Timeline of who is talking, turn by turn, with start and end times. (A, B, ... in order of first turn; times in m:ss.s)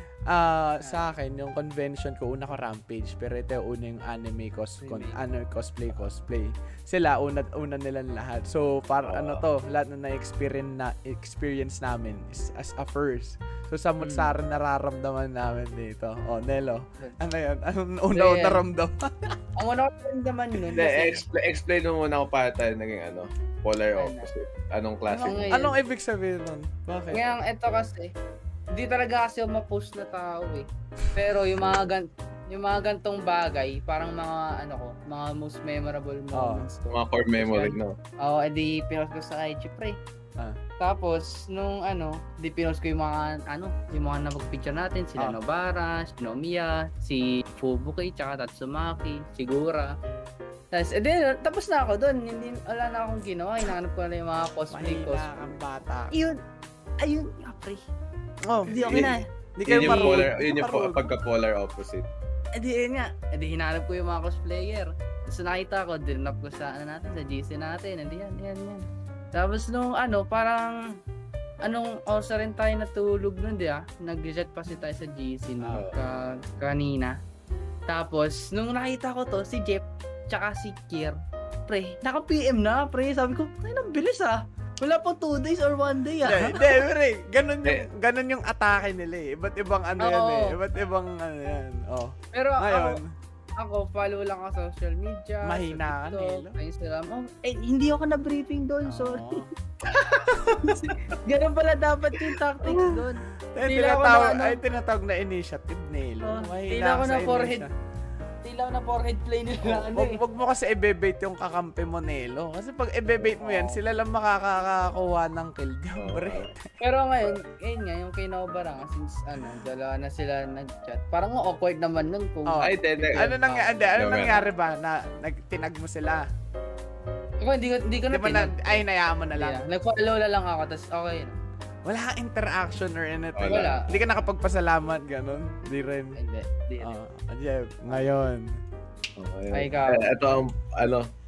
0:00.3-0:19.4 A
0:04.8-0:05.2 B
0:09.0-0:09.4 C
0:14.0-0:14.3 B
0:18.1-0:18.6 B
0:19.6-0:21.2 B
0:20.7-0:25.6 C
0:24.0-0:24.3 B
0:25.1-0:27.2 A
0:25.1-0:25.8 B
0:27.1-0:28.1 B
0:28.7-0:40.0 B
0:36.3-0:36.7 A
0:36.9-0:38.0 C
0:40.8-0:49.9 B
0:50.7-0:55.6 B
0:54.7-0:56.2 A
0:56.1-0:56.4 B
0:57.0-0:57.8 B
0:58.4-1:01.1 A
0:58.7-0:59.3 B
0:58.7-1:02.1 C
0:59.8-1:00.2 B
1:02.5-1:11.0 B
1:11.6-1:17.2 B
1:15.6-1:15.9 A
1:17.9-1:26.8 B
1:26.2-1:33.1 A
1:30.0-1:30.6 B
1:32.3-1:33.0 B
1:33.6-1:39.4 B
1:35.4-1:36.6 A
1:38.8-1:39.5 A
1:39.8-1:40.8 C
1:40.5-1:44.6 B
1:42.7-1:43.0 C
1:43.5-1:47.7 A
1:46.2-1:47.7 B
1:48.4-1:50.2 B
1:49.8-1:56.7 A
1:53.2-1:53.8 B
1:56.0-1:56.5 C
1:56.8-2:04.0 B
2:02.4-2:06.3 A
2:02.6-2:03.4 C
2:03.9-2:04.4 C
2:07.4-2:11.4 B
2:08.1-2:09.6 A
2:11.8-2:16.2 A
2:13.3-2:13.8 C
2:13.5-2:14.1 B
2:16.1-2:16.9 B
2:16.8-2:18.6 A
2:19.2-2:21.1 C
2:19.5-2:20.3 B